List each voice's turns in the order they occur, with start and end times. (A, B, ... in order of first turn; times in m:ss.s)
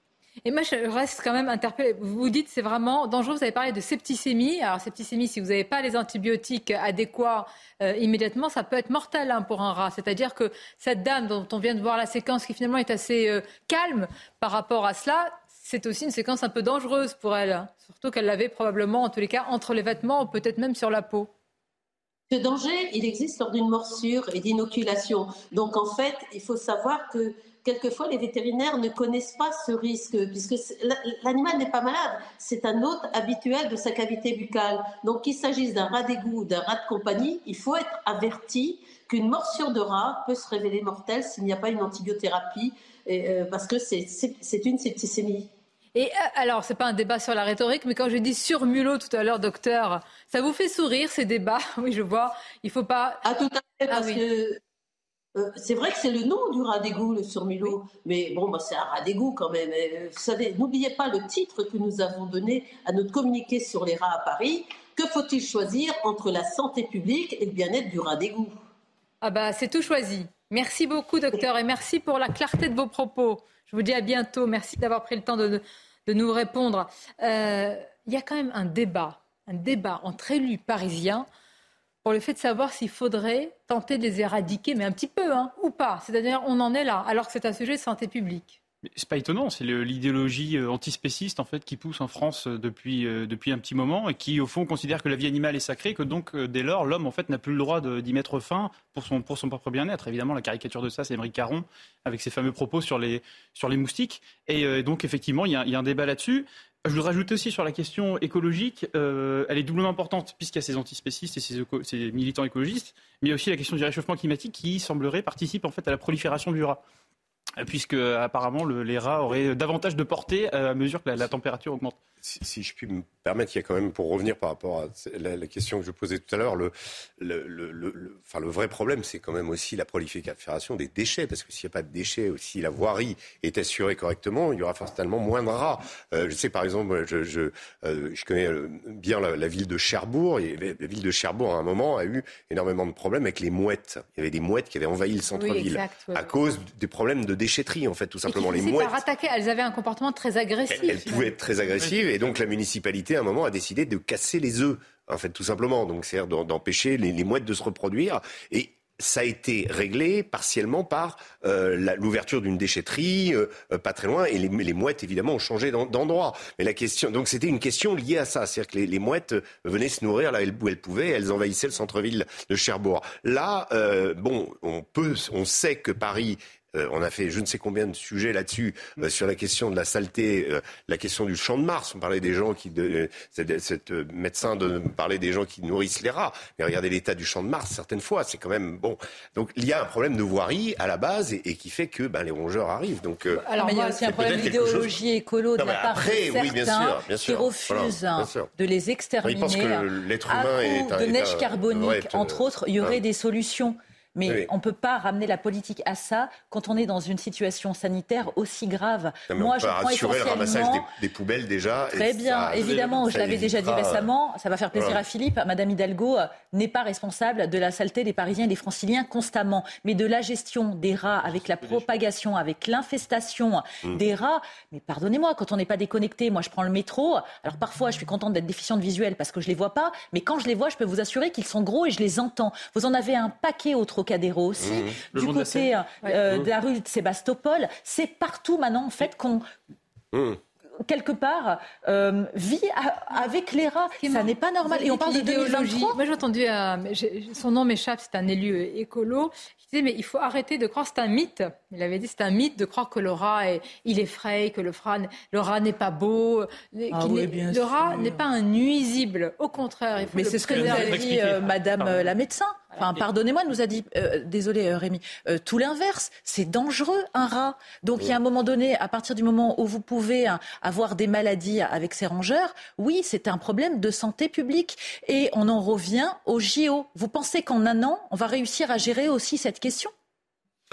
0:00.4-0:21.3 A
0:22.3-0:45.5 B
0:46.0-0:53.2 A
0:53.3-0:54.6 B
0:53.9-0:54.2 A
0:55.4-1:08.6 B
1:09.2-1:21.3 A
1:22.0-1:28.6 A
1:29.0-1:56.8 C
1:57.6-2:02.0 C
2:02.2-2:28.9 D
2:25.4-2:26.3 A
2:28.3-2:31.3 A
2:30.7-3:13.5 D
3:13.4-3:14.1 A
3:13.5-3:30.9 E
3:14.0-3:15.0 D
3:15.6-3:18.5 D
3:19.2-3:23.0 D
3:29.3-3:34.1 D
3:31.9-3:59.5 E
3:32.6-3:33.0 C
3:34.7-3:35.0 D
3:41.4-3:41.9 C
3:54.6-3:55.0 D
3:55.1-3:55.8 C
4:00.1-4:00.4 D
4:00.8-4:06.0 E
4:04.0-4:21.4 A
4:16.9-4:18.3 E
4:20.1-4:39.9 E
4:20.4-4:22.0 C